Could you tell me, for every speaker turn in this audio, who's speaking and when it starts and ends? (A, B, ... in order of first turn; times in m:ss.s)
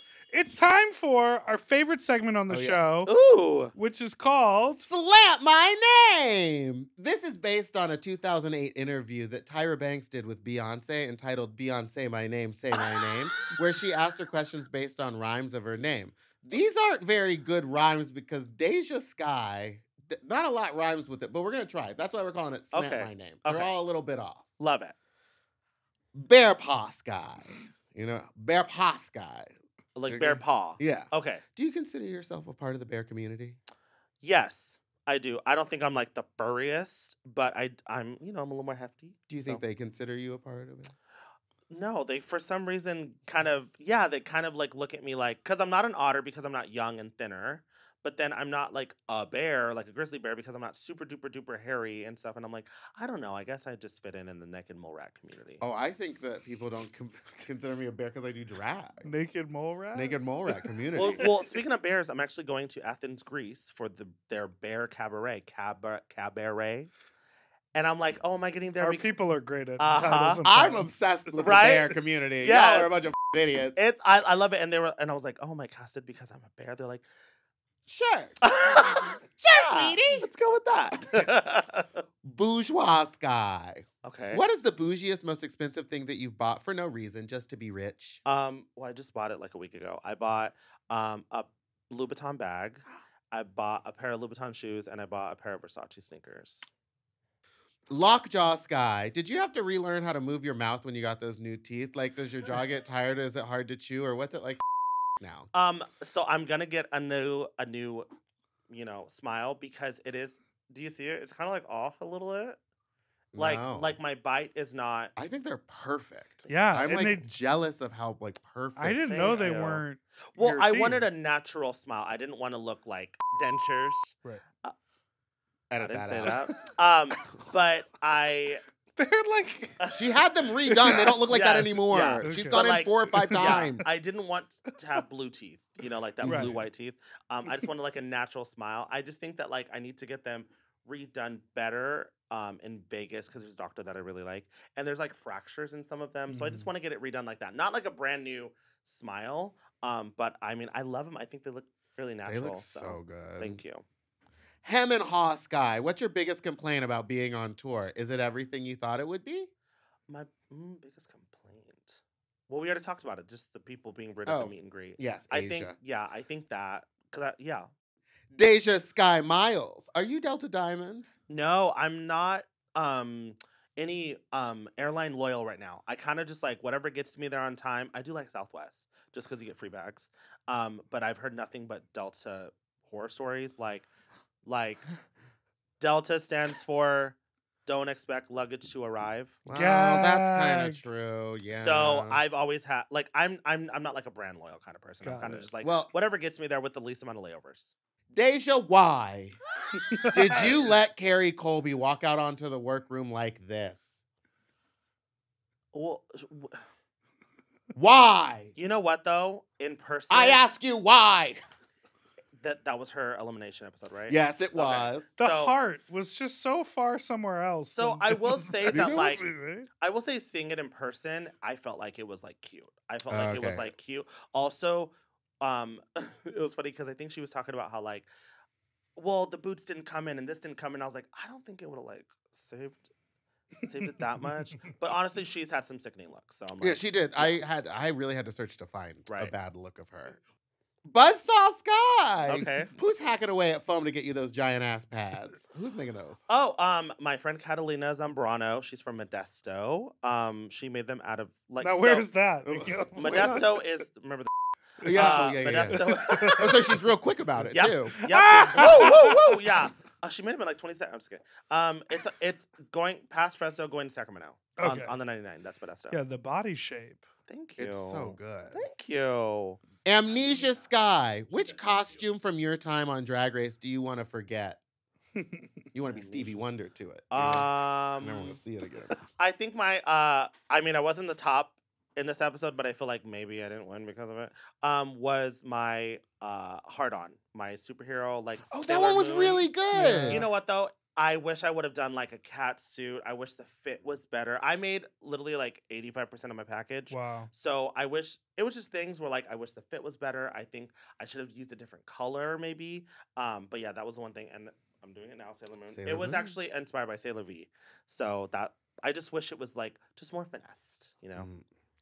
0:00.3-0:03.1 A
0:02.5-0:02.8 B
0:03.1-0:03.7 C
0:03.7-0:04.9 A
0:04.8-0:24.5 B
0:22.7-0:23.7 C
0:24.6-0:25.0 C
0:26.1-0:29.5 B
0:30.0-0:31.4 C
0:30.1-0:33.6 B
0:34.2-0:39.6 C
0:39.3-0:40.9 B
0:41.7-0:55.6 C
0:55.6-0:59.1 B
0:59.0-1:00.6 A
0:59.9-1:01.3 B
1:00.9-1:06.9 C
1:07.7-1:09.1 C
1:08.8-1:11.8 A
1:09.8-1:10.4 C
1:10.4-1:13.8 B
1:11.4-1:11.9 C
1:12.4-1:13.1 C
1:13.8-1:17.0 C
1:17.9-1:18.4 B
1:18.4-1:22.0 C
1:19.2-1:20.3 B
1:22.2-1:28.2 B
1:24.0-1:24.4 C
1:28.2-1:36.7 C
1:37.9-1:44.6 B
1:45.2-1:45.5 B
1:45.5-1:48.1 C
1:48.7-1:52.6 C
1:53.3-1:54.0 B
1:53.4-1:55.1 C
1:55.2-1:59.6 B
1:56.5-1:57.2 A
1:58.8-2:01.1 A
1:59.1-2:04.8 C
2:05.7-2:06.5 B
2:05.8-2:08.6 C
2:06.3-2:06.6 A
2:09.0-2:09.8 A
2:09.8-2:10.0 C
2:09.9-2:13.9 B
2:10.7-2:11.2 A
2:11.3-2:33.8 C
2:12.2-2:13.9 A
2:16.2-2:16.6 B
2:16.2-2:16.6 A
2:26.3-2:26.7 B
2:32.2-2:33.6 B
2:34.6-2:39.5 B
2:40.1-2:47.7 C
2:44.3-2:45.8 B
2:48.3-2:51.1 B
2:51.3-3:03.9 C
3:04.4-3:04.9 C
3:05.8-3:09.4 C
3:09.4-3:12.2 B
3:09.5-3:10.8 A
3:11.5-3:17.7 C
3:15.0-3:15.5 A
3:15.6-3:15.9 B
3:18.1-3:19.4 B
3:19.9-3:20.5 A
3:20.1-3:24.0 B
3:25.7-3:26.6 C
3:27.7-3:28.5 B
3:28.6-3:30.4 C
3:30.1-3:31.4 B
3:32.4-3:35.6 C
3:34.1-3:35.1 B
3:35.2-3:39.7 A
3:37.7-3:39.3 C
3:38.7-3:39.2 B
3:39.8-3:48.1 C
3:43.1-3:43.7 B
3:49.0-3:52.9 C
3:53.6-3:57.3 C
3:56.6-4:00.2 B
3:59.1-3:59.3 C
4:00.9-4:06.2 B
4:02.3-4:02.7 C
4:06.3-4:12.1 C
4:11.6-4:13.5 A
4:12.5-4:13.5 B
4:13.0-4:14.3 C
4:14.8-4:18.0 B
4:14.9-4:16.6 C
4:15.7-4:16.7 A
4:17.5-4:26.0 C
4:18.0-4:19.4 A
4:24.6-4:25.0 A
4:25.9-4:27.0 A
4:27.3-4:29.6 C
4:27.6-4:28.6 B
4:29.8-4:34.6 B
4:35.7-4:39.0 B
4:35.9-4:36.5 C
4:37.1-4:38.4 C
4:39.1-4:49.5 C
4:48.5-4:50.2 B
4:49.7-4:50.3 A
4:50.1-5:11.3 C
4:56.9-4:57.3 A
5:05.7-5:06.3 B
5:11.2-5:11.4 B